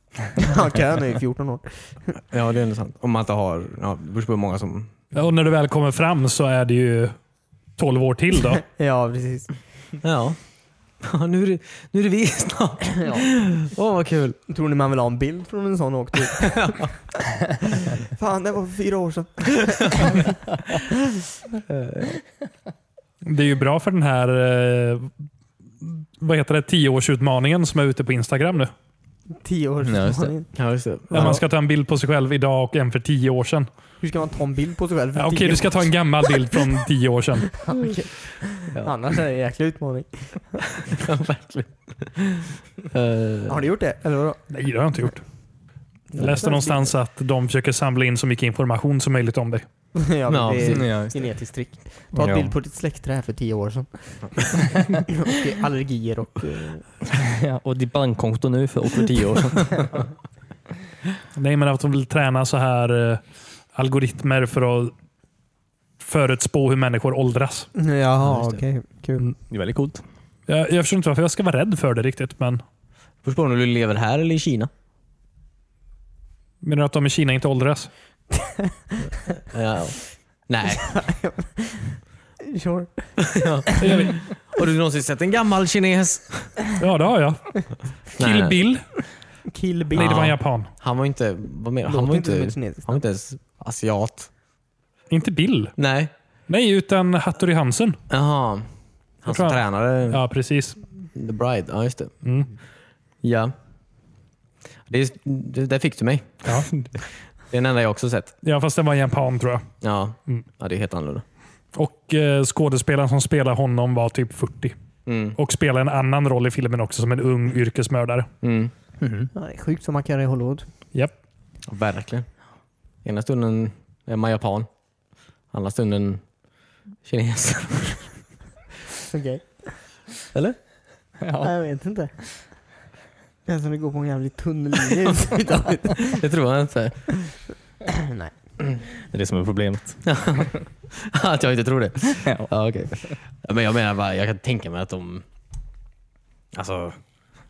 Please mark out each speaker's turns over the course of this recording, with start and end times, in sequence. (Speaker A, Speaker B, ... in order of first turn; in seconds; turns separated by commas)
Speaker A: 0.4-2.1, Speaker B: 2.3-4.9, Speaker C: 5.1-7.1, Speaker C: 7.8-8.6, Speaker A: 8.7-9.5, Speaker B: 10.0-10.4, Speaker B: 11.0-14.4, Speaker A: 13.0-13.2, Speaker A: 14.5-16.8, Speaker B: 16.5-16.9, Speaker A: 17.8-20.3, Speaker B: 21.7-22.1, Speaker C: 23.2-25.1, Speaker C: 25.8-28.7, Speaker A: 29.3-30.5, Speaker D: 29.8-30.3, Speaker B: 30.5-31.4, Speaker C: 31.1-33.7, Speaker A: 31.1-31.4, Speaker A: 34.0-36.5, Speaker C: 35.1-37.8, Speaker A: 37.6-40.8, Speaker B: 40.9-43.6, Speaker A: 43.5-44.4, Speaker C: 44.5-45.2, Speaker A: 46.1-46.9, Speaker C: 46.1-49.7, Speaker A: 49.9-56.9, Speaker B: 50.3-50.9, Speaker D: 50.6-51.3, Speaker D: 52.1-52.5, Speaker D: 57.1-60.0, Speaker C: 61.4-63.2, Speaker C: 63.7-64.9, Speaker C: 66.0-67.7, Speaker A: 67.7-69.3, Speaker D: 69.5-70.0, Speaker C: 70.5-72.6, Speaker B: 73.2-74.7, Speaker C: 76.6-77.9, Speaker A: 78.4-78.7, Speaker B: 79.4-81.0, Speaker A: 80.7-83.9, Speaker B: 83.3-86.6, Speaker C: 83.8-84.2, Speaker C: 86.8-88.9, Speaker B: 88.2-88.6, Speaker A: 89.5-90.1, Speaker C: 89.9-90.7, Speaker B: 89.9-94.3, Speaker A: 91.8-93.0, Speaker C: 95.1-95.8, Speaker B: 95.8-96.1, Speaker C: 96.5-98.0, Speaker B: 98.1-98.7, Speaker B: 99.2-100.2, Speaker C: 99.3-100.8, Speaker B: 101.1-102.2, Speaker C: 102.2-102.5, Speaker B: 103.2-103.5, Speaker B: 104.9-108.3, Speaker C: 108.4-109.7, Speaker B: 109.8-111.2, Speaker C: 111.7-114.7, Speaker B: 115.0-115.4, Speaker C: 115.3-118.3, Speaker B: 118.4-118.7, Speaker D: 119.0-119.3, Speaker A: 119.3-120.7, Speaker B: 121.7-122.4, Speaker B: 123.0-124.7, Speaker B: 125.5-126.3, Speaker B: 127.0-128.2, Speaker A: 129.1-129.9, Speaker B: 130.3-130.6, Speaker D: 131.2-131.5, Speaker A: 131.4-132.6, Speaker A: 133.4-136.2, Speaker B: 136.1-137.1, Speaker A: 137.9-138.3, Speaker D: 139.1-140.0, Speaker B: 140.0-145.2, Speaker D: 142.2-142.5, Speaker B: 146.5-146.9